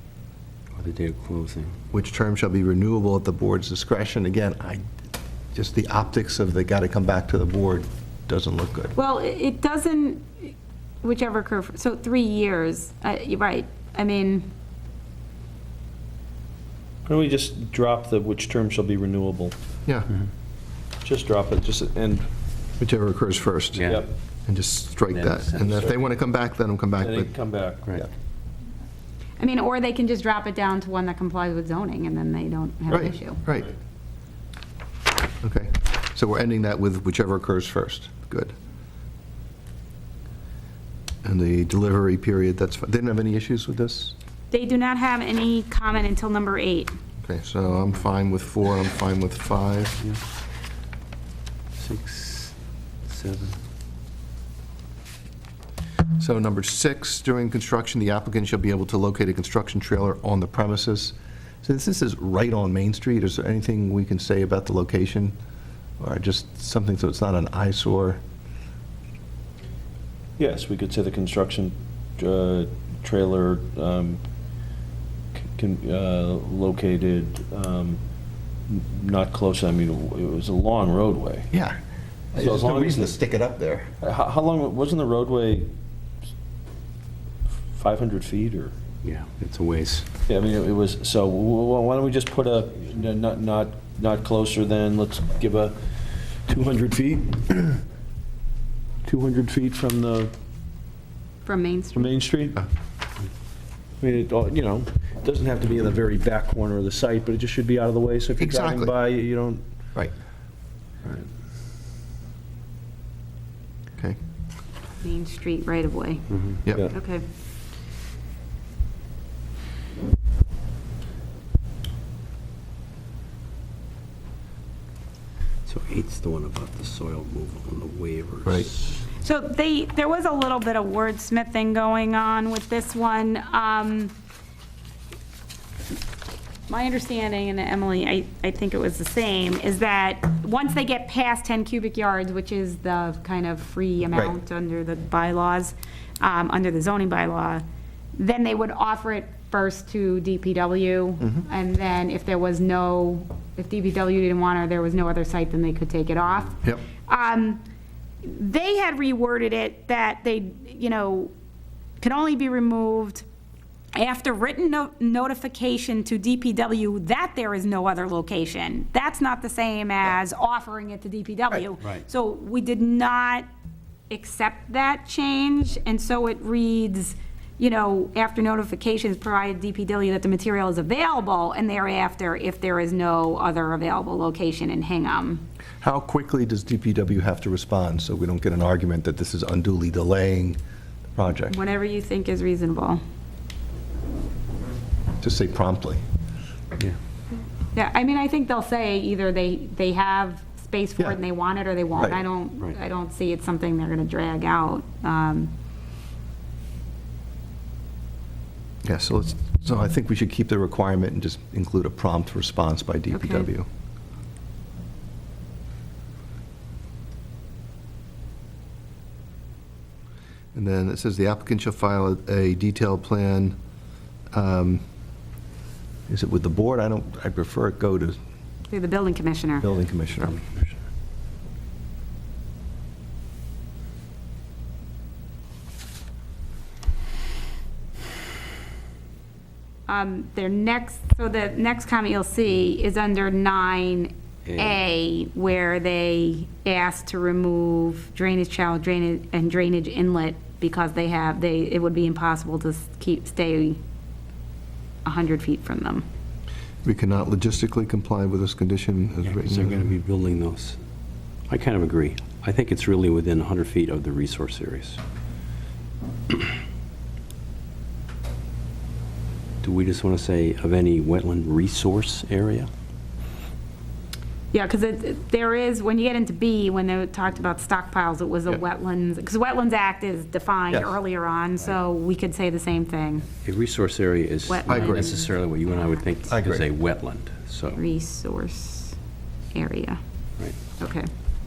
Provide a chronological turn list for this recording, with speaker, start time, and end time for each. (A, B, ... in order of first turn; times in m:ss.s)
0:00.8-0:01.8 A
0:01.9-0:04.8 B
0:05.5-0:09.0 B
0:09.0-0:14.5 C
0:17.1-0:19.5 D
0:21.0-0:22.3 D
0:22.8-0:27.3 B
0:23.7-0:24.1 A
0:25.1-0:25.8 A
0:27.0-0:27.8 D
0:29.4-0:33.4 C
0:32.9-0:33.7 B
0:35.4-0:38.5 B
0:41.2-0:44.2 B
0:44.5-0:46.9 C
0:47.2-0:50.0 B
0:51.8-0:52.5 A
0:53.1-0:53.6 A
0:56.2-1:05.4 B
1:06.0-1:08.2 B
1:10.4-1:14.2 D
1:15.4-1:18.0 D
1:18.7-1:21.5 D
1:21.5-1:21.8 B
1:22.3-1:23.9 B
1:22.4-1:23.2 D
1:24.0-1:25.7 D
1:27.7-1:28.7 D
1:29.0-1:30.1 A
1:30.3-1:35.8 D
1:36.5-1:37.8 D
1:39.0-1:40.3 D
1:41.4-1:42.1 C
1:42.0-1:42.7 D
1:44.0-1:49.6 D
1:48.4-1:49.0 B
1:55.0-1:56.3 C
1:56.3-1:56.6 A
1:56.9-1:57.3 C
2:05.7-2:08.9 A
2:09.2-2:14.1 C
2:16.7-2:27.6 C
2:28.2-2:37.6 C
2:38.2-2:41.3 C
2:42.0-2:43.2 C
2:43.9-2:53.5 C
2:54.1-3:05.5 C
3:05.8-3:10.6 B
3:11.2-3:11.6 B
3:11.5-3:13.0 C
3:15.2-3:16.0 B
3:17.7-3:25.5 C
3:28.8-3:33.7 B
3:33.1-3:33.5 C
3:40.5-3:43.6 B
3:44.3-3:44.8 B
3:46.1-3:48.2 B
3:48.7-3:49.7 C
3:49.6-3:50.4 B
3:59.9-4:13.8 C
4:04.4-4:04.8 A
4:15.0-4:16.0 C
4:16.8-4:19.8 B
4:19.2-4:20.8 A
4:21.5-4:25.0 A
4:29.6-4:32.7 A
4:34.5-4:43.3 C
4:43.4-4:47.8 A
4:44.5-4:45.3 C
4:44.7-4:45.0 B
4:46.3-4:46.6 B
4:47.8-4:49.0 C
4:49.5-4:50.0 C
4:50.8-4:51.1 C